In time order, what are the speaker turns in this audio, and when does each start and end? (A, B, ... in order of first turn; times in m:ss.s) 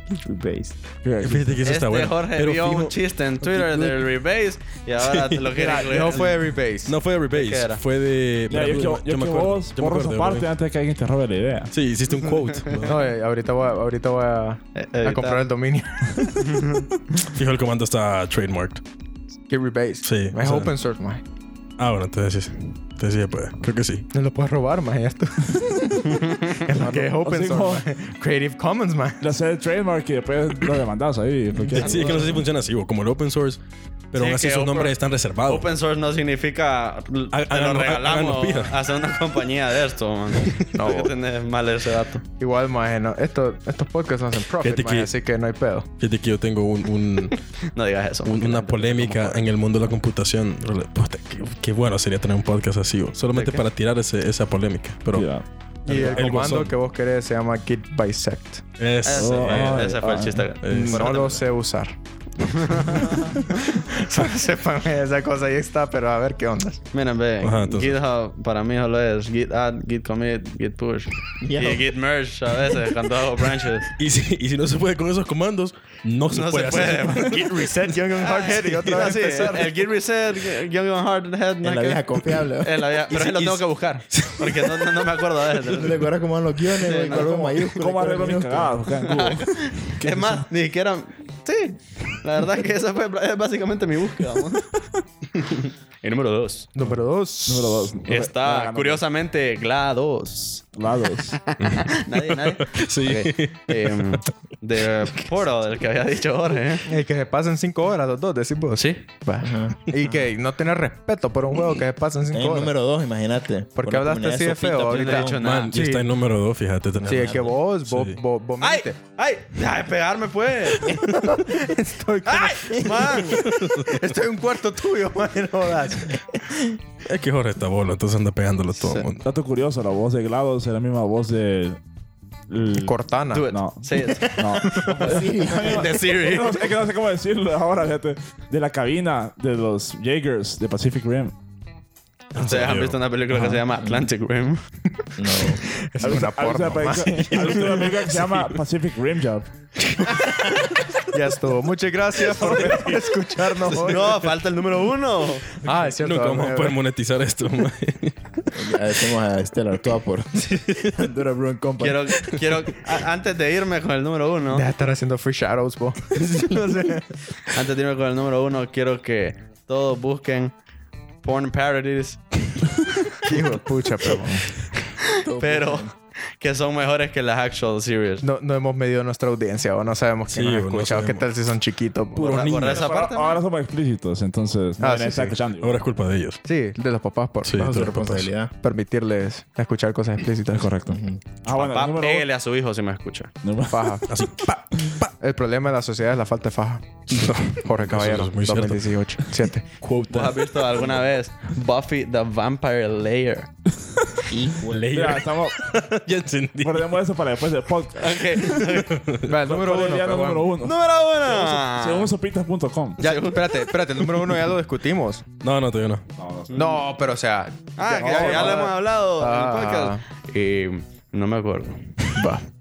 0:00.2-0:00.8 A
0:01.0-0:01.6 B
0:01.2-0:04.0 C
0:01.6-0:06.4 D
0:05.0-0:05.4 C
0:05.6-0:06.3 B
0:05.8-0:07.0 E
0:06.9-0:10.5 C
0:07.3-0:07.8 D
0:08.5-0:11.7 B
0:11.7-0:13.0 C
0:12.1-0:12.8 D
0:12.8-0:16.6 E
0:14.8-0:15.5 D
0:16.4-0:16.9 D
0:17.4-0:18.8 C
0:19.5-0:21.2 E
0:20.0-0:20.8 C
0:21.8-0:24.1 C
0:24.1-0:26.1 E
0:26.0-0:27.0 D
0:26.6-0:29.2 E
0:27.1-0:27.8 B
0:29.2-0:32.4 B
0:31.7-0:35.7 C
0:31.8-0:32.3 D
0:34.2-0:34.9 D
0:35.5-0:42.2 D
0:37.3-0:38.8 C
0:40.4-0:40.7 C
0:40.8-0:41.1 E
0:42.4-0:45.9 E
0:44.6-0:45.1 C
0:46.0-0:47.4 C
0:47.3-0:49.4 D
0:48.2-0:55.3 C
0:53.3-0:53.6 D
0:55.1-0:56.6 B
0:55.8-0:56.7 C
0:55.9-0:58.7 E
0:58.8-0:59.9 C
0:59.0-1:01.5 D
0:59.1-1:00.5 B
1:00.6-1:01.1 C
1:00.7-1:02.0 E
1:02.4-1:03.3 D
1:02.7-1:06.8 E
1:06.9-1:13.9 D
1:07.4-1:08.0 C
1:11.4-1:11.9 A
1:13.9-1:17.7 C
1:16.3-1:17.3 D
1:17.2-1:19.7 E
1:18.2-1:26.1 D
1:21.6-1:23.2 A
1:23.3-1:23.6 C
1:24.1-1:24.7 C
1:25.6-1:28.8 A
1:26.8-1:27.4 D
1:27.6-1:29.7 B
1:29.0-1:36.7 D
1:36.7-1:38.0 E
1:37.5-1:39.0 B
1:38.1-1:40.7 D
1:40.8-1:41.4 B
1:41.3-1:46.9 D
1:41.6-1:44.2 C
1:46.9-1:52.7 E
1:48.8-1:49.0 D
1:49.4-1:50.3 A
1:52.3-1:55.4 A
1:53.8-1:56.1 E
1:54.6-1:55.8 D
1:55.4-1:58.2 C
1:57.0-1:59.0 E
1:57.1-1:57.5 A
1:58.6-2:00.9 D
2:00.9-2:06.4 E
2:02.3-2:03.5 D
2:03.4-2:04.0 C
2:06.5-2:06.8 A
2:07.0-2:09.3 C
2:08.8-2:09.1 D
2:09.2-2:11.8 B
2:12.5-2:12.9 B
2:12.8-2:13.5 E
2:13.3-2:16.8 D
2:13.4-2:21.3 B
2:14.4-2:16.0 A
2:14.6-2:15.2 E
2:22.3-2:24.6 D
2:22.4-2:23.0 C
2:25.2-2:25.6 A
2:25.4-2:28.0 E
2:26.0-2:29.5 B
2:27.2-2:28.5 C
2:30.0-2:30.3 E
2:31.0-2:34.4 E
2:33.7-2:35.6 D
2:35.6-2:36.8 E
2:35.8-2:38.4 C
2:38.5-2:42.2 A
2:40.6-2:40.9 C
2:41.8-2:44.7 D
2:44.5-2:47.2 E
2:47.5-2:50.5 D
2:51.2-2:53.5 D
2:53.2-2:54.5 E
2:55.0-2:58.2 D
2:55.2-2:55.9 A
2:58.2-3:02.5 E
3:00.3-3:01.3 C
3:02.2-3:02.9 C
3:02.2-3:03.4 D
3:02.8-3:05.9 B
3:04.8-3:05.4 E
3:05.6-3:06.4 C
3:06.4-3:07.8 E
3:07.4-3:08.3 C
3:07.6-3:08.5 A
3:08.6-3:10.7 E
3:10.5-3:12.3 B
3:10.9-3:11.2 A
3:11.5-3:13.3 D
3:13.4-3:14.0 B
3:13.7-3:14.1 E
3:14.1-3:15.1 C
3:15.2-3:17.0 E
3:17.1-3:18.9 C
3:17.6-3:19.7 E
3:19.8-3:20.4 C
3:20.1-3:23.5 D
3:24.3-3:25.1 A
3:24.7-3:26.9 C
3:24.9-3:25.7 B
3:26.6-3:28.6 B
3:28.0-3:29.0 D
3:28.9-3:29.3 C
3:29.2-3:30.5 E
3:29.4-3:30.7 B
3:30.6-3:32.1 D
3:31.3-3:33.0 B
3:33.0-3:34.0 D
3:33.0-3:35.3 E
3:35.4-3:36.0 C
3:36.2-3:36.8 B
3:36.6-3:40.0 E
3:37.8-3:41.9 D
3:37.9-3:38.7 B
3:42.1-3:42.5 E